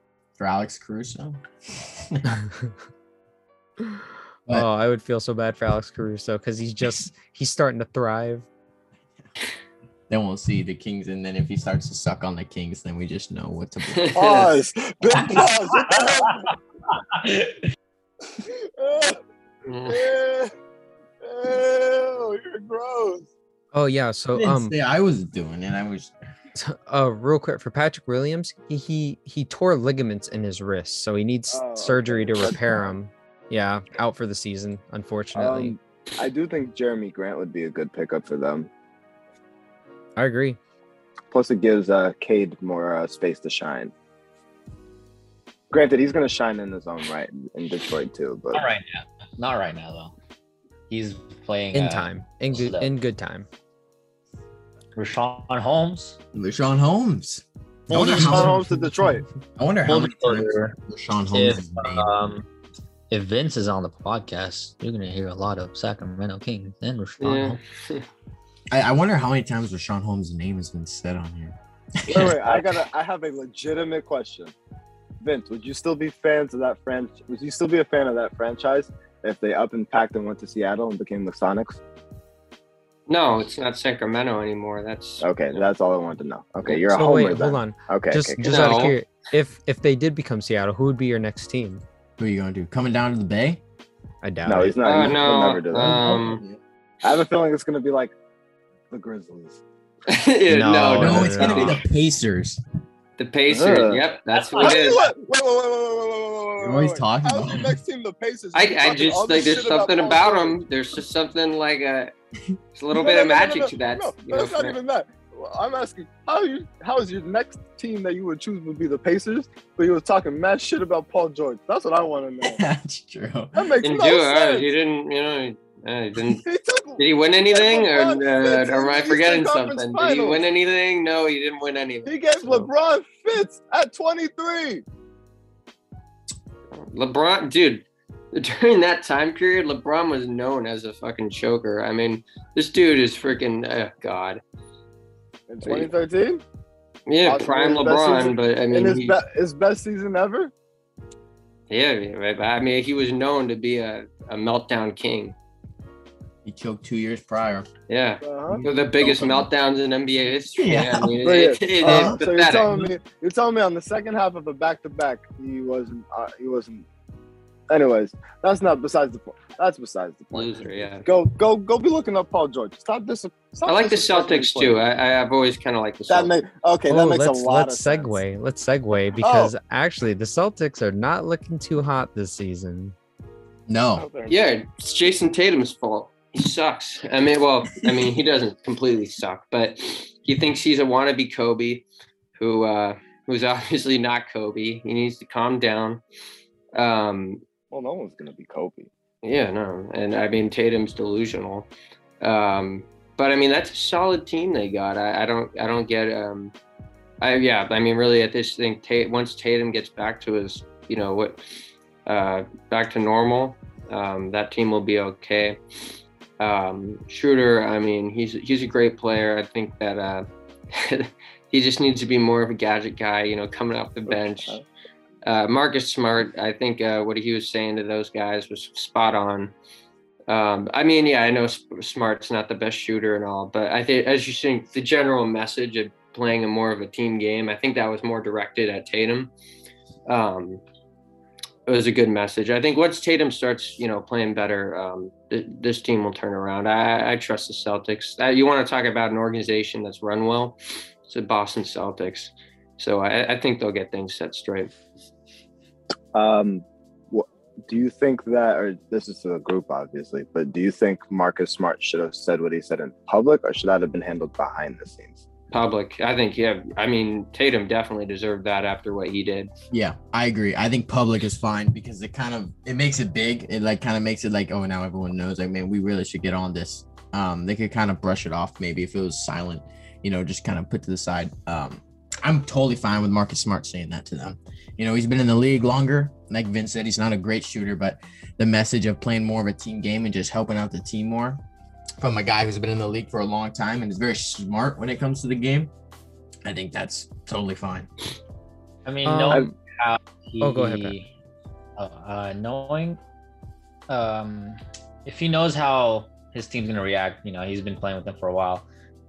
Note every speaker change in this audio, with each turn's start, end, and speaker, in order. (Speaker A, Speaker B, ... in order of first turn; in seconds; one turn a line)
Speaker A: 0.4-2.4
Speaker B: 2.4-2.7
Speaker B: 3.8-8.4
Speaker A: 10.1-14.2
Speaker C: 13.9-14.5
Speaker D: 14.1-16.5
Speaker E: 17.1-17.5
Speaker D: 18.4-19.2
Speaker C: 19.6-20.1
Speaker D: 19.9-20.5
Speaker D: 21.2-23.3
Speaker B: 23.7-24.7
Speaker A: 24.3-26.1
Speaker B: 26.6-35.7
Speaker D: 31.5-32.9
Speaker D: 35.3-38.7
Speaker B: 40.2-40.6
Speaker D: 41.3-43.9
Speaker D: 45.7-48.6
Speaker E: 48.5-50.1
Speaker E: 50.9-52.9
Speaker B: 51.7-53.5
Speaker E: 54.9-56.2
Speaker A: 56.3-58.6
Speaker D: 57.9-59.2
Speaker A: 59.6-62.2
Speaker E: 59.9-60.8
Speaker E: 61.3-62.5
Speaker E: 63.1-67.6
Speaker C: 67.2-68.0
Speaker A: 68.7-72.8
Speaker D: 72.1-74.5
Speaker D: 75.2-81.8
Speaker C: 83.1-85.6
Speaker D: 85.2-88.8
Speaker B: 86.7-91.8
Speaker C: 88.4-88.9
Speaker A: 92.2-93.6
Speaker B: 94.2-95.1
Speaker D: 94.4-96.0
Speaker C: 94.8-96.4
Speaker A: 95.8-96.6
Speaker D: 97.0-98.1
Speaker D: 98.9-99.6
Speaker C: 100.1-101.8
Speaker B: 100.5-101.8
Speaker A: 101.0-102.6
Speaker C: 103.2-105.0
Speaker D: 103.5-104.0
Speaker E: 104.3-105.0
Speaker D: 104.6-110.6
Speaker A: 106.6-107.8
Speaker C: 108.5-112.1
Speaker C: 112.7-114.8
Speaker D: 112.9-122.6
Speaker A: 122.4-123.7
Speaker D: 123.5-124.7
Speaker C: 123.8-126.5
Speaker D: 126.4-130.4
Speaker C: 127.0-132.7
Speaker D: 132.1-134.8
Speaker C: 136.7-144.4
Speaker D: 145.5-146.4
Speaker C: 145.6-145.9
Speaker C: 147.1-149.2
Speaker D: 147.2-150.5
Speaker C: 151.7-155.3
Speaker A: 156.4-157.7
Speaker C: 157.9-162.9
Speaker D: 158.2-158.6
Speaker A: 158.5-159.5
Speaker A: 160.6-161.2
Speaker D: 161.2-166.8
Speaker A: 161.8-162.2
Speaker D: 167.7-174.8
Speaker C: 170.3-171.1
Speaker C: 173.7-176.3
Speaker D: 176.1-178.2
Speaker B: 176.9-182.9
Speaker D: 179.2-179.5
Speaker A: 183.7-184.1
Speaker D: 183.9-184.4
Speaker C: 184.3-191.8
Speaker C: 192.3-196.0
Speaker C: 196.7-197.4
Speaker D: 197.7-198.9
Speaker C: 199.2-201.7
Speaker C: 202.2-206.5
Speaker C: 207.2-211.4
Speaker C: 212.1-215.6
Speaker C: 216.4-224.6
Speaker D: 224.1-224.6
Speaker C: 225.2-229.5
Speaker C: 230.3-239.3
Speaker C: 240.1-240.6
Speaker C: 241.7-254.7
Speaker D: 256.1-265.2
Speaker C: 265.5-269.5
Speaker A: 269.7-291.4
Speaker A: 292.0-295.7
Speaker A: 296.4-297.9
Speaker E: 298.9-301.1
Speaker B: 299.0-299.5
Speaker B: 300.4-300.9
Speaker E: 301.8-303.0
Speaker E: 303.9-308.6